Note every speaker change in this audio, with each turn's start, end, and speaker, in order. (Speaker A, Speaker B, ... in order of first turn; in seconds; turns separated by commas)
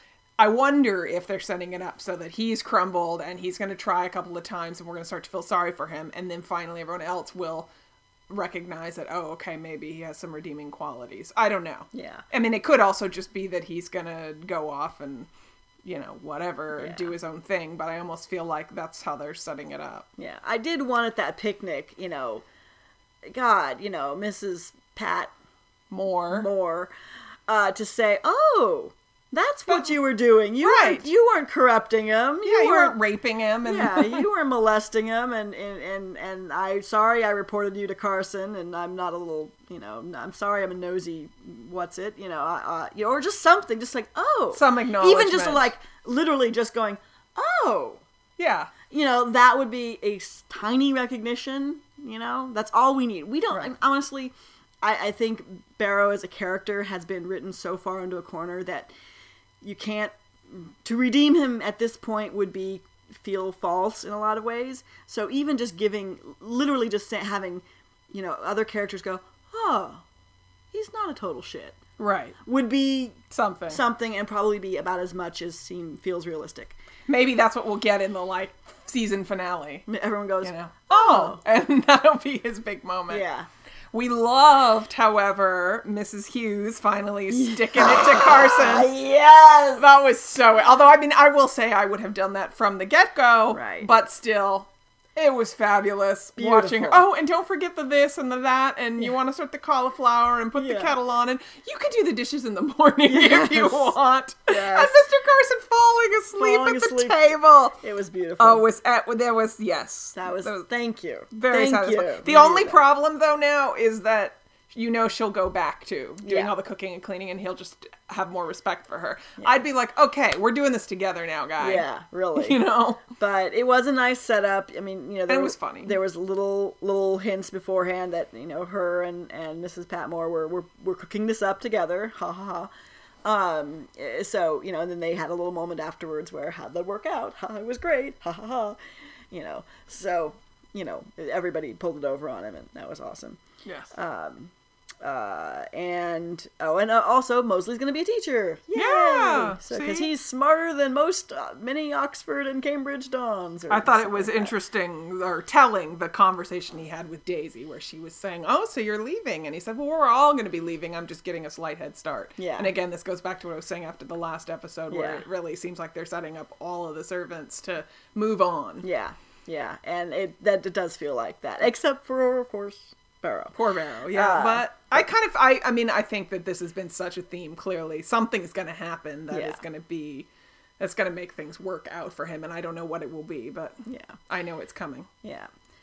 Speaker A: 0.4-7.7, Speaker A: 8.3-15.3, Speaker B: 11.9-12.2, Speaker A: 15.8-20.1, Speaker B: 16.8-17.1, Speaker B: 20.2-22.4, Speaker B: 23.2-25.3, Speaker A: 25.9-26.5, Speaker B: 26.3-26.9, Speaker B: 27.5-33.0, Speaker A: 29.7-29.9, Speaker A: 30.6-31.1, Speaker A: 32.5-34.3, Speaker B: 33.6-48.0, Speaker A: 44.5-45.7, Speaker A: 48.4-48.7, Speaker B: 48.9-58.9, Speaker B: 59.6-70.0, Speaker B: 70.7-71.8, Speaker A: 72.0-72.4, Speaker B: 72.4-76.8, Speaker A: 73.3-73.8, Speaker A: 77.1-79.9, Speaker B: 79.9-81.4, Speaker A: 80.4-83.2, Speaker B: 83.1-83.5, Speaker A: 83.9-88.9, Speaker B: 87.3-89.9, Speaker A: 89.8-107.8, Speaker B: 93.5-93.9, Speaker B: 96.4-97.0, Speaker B: 100.6-101.0, Speaker B: 103.1-104.0, Speaker B: 104.5-105.0, Speaker B: 106.4-108.7, Speaker A: 108.4-110.7, Speaker B: 110.1-112.8, Speaker A: 111.3-121.8, Speaker B: 116.2-116.5, Speaker B: 121.6-132.7, Speaker A: 122.4-123.0, Speaker A: 125.3-126.0, Speaker B: 133.2-138.8, Speaker B: 139.3-143.4, Speaker A: 143.7-143.9, Speaker B: 143.9-154.6, Speaker A: 148.8-150.1, Speaker A: 153.7-168.8, Speaker B: 162.4-162.7, Speaker B: 164.9-165.2, Speaker B: 168.8-173.6, Speaker A: 173.5-180.3, Speaker B: 174.1-175.0, Speaker B: 179.3-179.6, Speaker A: 180.8-185.1, Speaker B: 183.8-184.2, Speaker B: 185.2-185.5